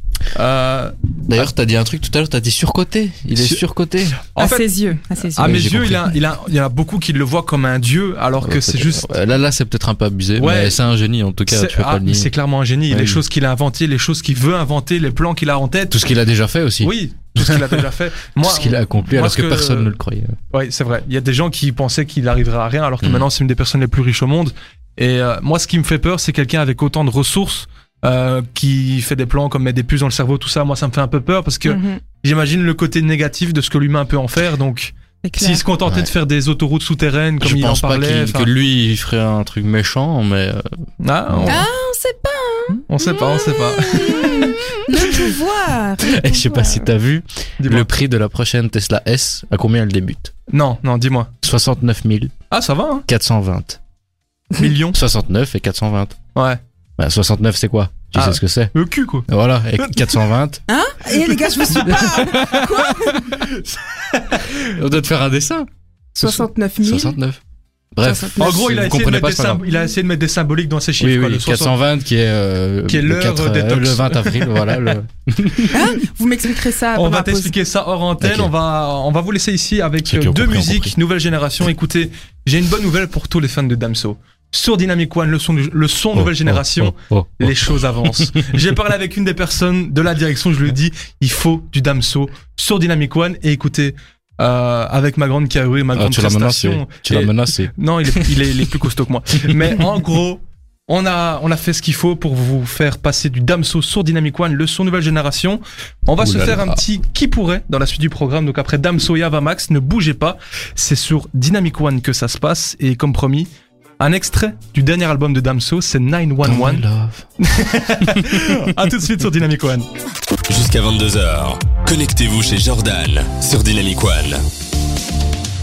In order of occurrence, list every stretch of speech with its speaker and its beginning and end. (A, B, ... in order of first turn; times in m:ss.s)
0:00.3-0:00.9 A
0:01.3-0:04.2 B
0:03.3-0:03.6 A
0:04.3-0:04.7 A
0:04.4-0:05.8 C
0:05.3-0:09.1 A
0:05.4-0:06.1 B
0:08.4-0:12.3 B
0:10.4-0:10.8 A
0:11.5-0:16.0 A
0:12.9-0:13.2 B
0:15.9-0:17.8 B
0:16.8-0:19.9 A
0:18.4-0:20.3 B
0:20.5-0:38.5 A
0:23.0-0:23.3 B
0:31.6-0:32.0 C
0:35.2-0:35.6 C
0:35.8-0:36.1 B
0:37.4-0:40.6 B
0:41.0-0:41.7 A
0:41.3-0:41.6 B
0:41.4-0:46.9 C
0:42.9-0:44.6 A
0:46.0-0:50.3 B
0:47.6-0:47.9 A
0:50.5-0:51.3 A
0:51.4-0:52.3 B
0:52.5-0:53.0 A
0:53.1-0:53.8 B
0:54.5-0:55.0 A
0:54.9-0:56.2 B
0:56.3-0:56.6 A
0:57.0-0:58.7 B
0:58.1-0:59.3 A
0:59.3-1:00.6 B
0:59.8-1:00.2 A
1:00.7-1:03.3 C
1:01.5-1:04.7 A
1:01.7-1:02.4 B
1:04.6-1:05.7 B
1:06.2-1:07.2 C
1:06.2-1:07.4 B
1:07.9-1:09.6 B
1:08.0-1:08.6 C
1:08.4-1:11.7 A
1:11.0-1:15.8 B
1:12.9-1:15.0 A
1:15.7-1:17.5 C
1:16.9-1:53.5 A
1:18.2-1:18.5 B
1:20.0-1:20.9 B
1:26.1-1:28.4 B
1:35.9-1:38.6 B
1:39.5-1:39.8 B
1:46.2-1:46.8 B
1:54.0-1:56.8 A
1:56.4-1:57.2 B
1:57.4-1:59.9 A
1:58.2-1:58.5 B
2:00.5-2:04.4 D